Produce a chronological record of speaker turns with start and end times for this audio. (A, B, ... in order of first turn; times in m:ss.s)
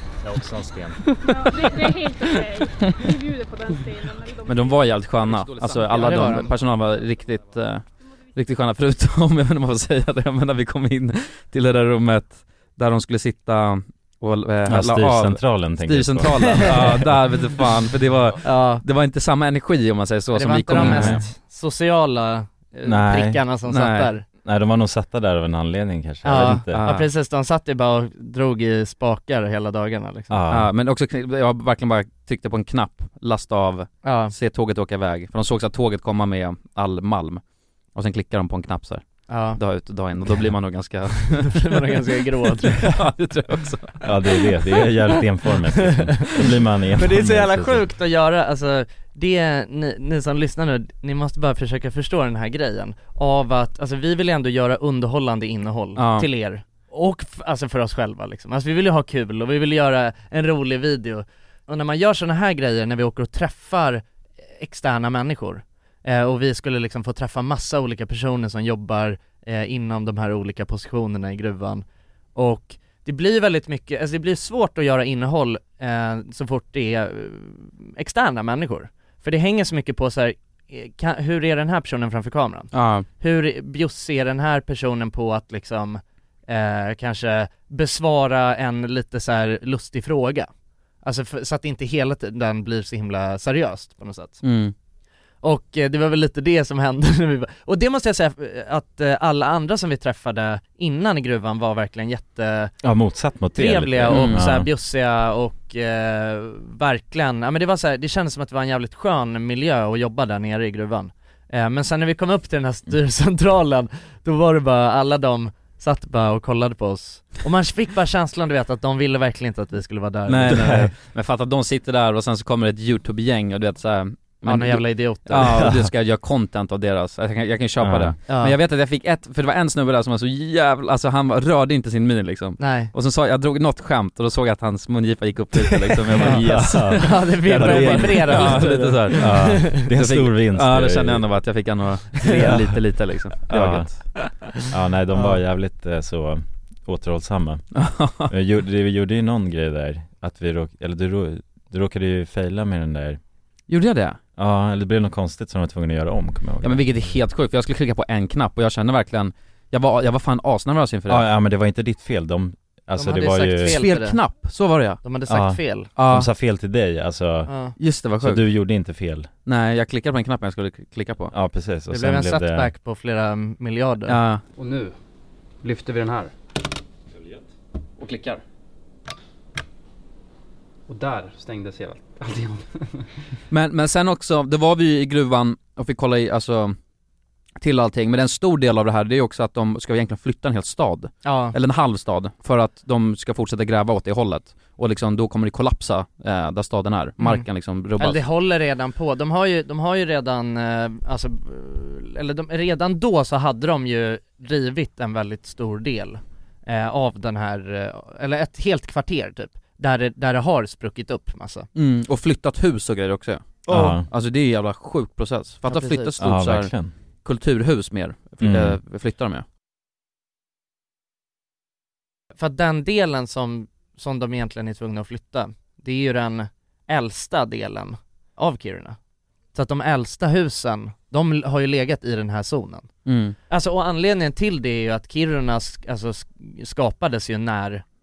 0:00.3-0:01.0 A
0:01.3-0:04.8 B
0:04.4-0:21.2 C
0:05.2-0:06.4 D
0:05.9-0:06.5 E
0:14.7-0:17.1 A
0:16.4-0:16.7 E
0:18.4-0:18.8 E
0:20.3-0:24.2 E
0:20.7-0:21.2 A
0:22.8-0:23.4 A
0:23.7-0:24.1 C
0:24.4-0:26.8 A
0:26.2-0:30.4 E
0:26.7-0:27.1 C
0:30.3-0:30.7 A
0:30.5-0:37.4 C
0:34.0-0:34.3 E
0:37.9-0:41.8 C
0:39.3-0:39.6 E
0:41.3-0:42.9 E
0:42.7-0:44.1 C
0:44.0-0:47.8 A
0:45.9-0:46.3 E
0:47.0-1:04.0 E
0:56.0-0:56.3 C
1:04.6-1:11.8 E
1:12.4-1:30.5 E
1:22.7-1:23.0 C
1:31.0-1:34.4 E
1:34.4-1:34.7 C
1:35.4-1:42.7 E
1:42.8-1:44.7 A
1:43.5-2:00.8 E
1:44.1-1:44.4 C
2:00.3-2:24.0 C
2:00.5-2:00.9 A
2:04.4-2:05.7 E
2:05.4-2:05.9 A
2:07.8-2:08.2 A
2:08.3-2:08.6 E
2:12.6-2:12.9 E
2:15.7-2:21.3 A
2:16.2-2:19.8 E
2:22.3-2:22.6 A
2:23.5-2:23.9 A
2:24.7-2:27.6 A
2:27.7-2:28.3 C
2:28.2-2:33.2 A
2:33.7-2:34.2 C
2:34.4-2:36.9 A
2:36.6-2:41.2 C
2:41.1-2:43.8 A
2:42.9-2:44.2 E
2:43.6-2:45.0 C
2:45.0-2:45.9 E
2:45.3-2:47.5 A
2:46.0-2:46.3 C
2:47.5-2:47.7 E
2:47.8-2:48.4 C
2:48.2-2:49.3 A
2:49.4-2:51.3 C
2:51.3-2:52.7 A
2:51.9-2:54.2 E
2:54.1-2:54.4 C
2:54.6-2:54.9 D
2:55.6-2:56.3 D
2:58.0-2:58.4 C
3:00.9-3:02.8 D
3:03.5-3:06.8 C
3:07.6-3:18.2 C
3:11.2-3:11.5 E
3:17.2-3:17.4 E
3:18.0-3:31.7 E
3:31.7-3:36.7 C
3:33.7-3:34.0 A
3:35.7-3:36.1 E
3:36.2-3:36.9 A
3:37.2-3:39.4 C
3:38.4-3:38.8 A
3:42.4-3:49.0 E
3:49.5-3:52.9 E
3:53.0-3:53.4 C
3:53.5-3:57.8 E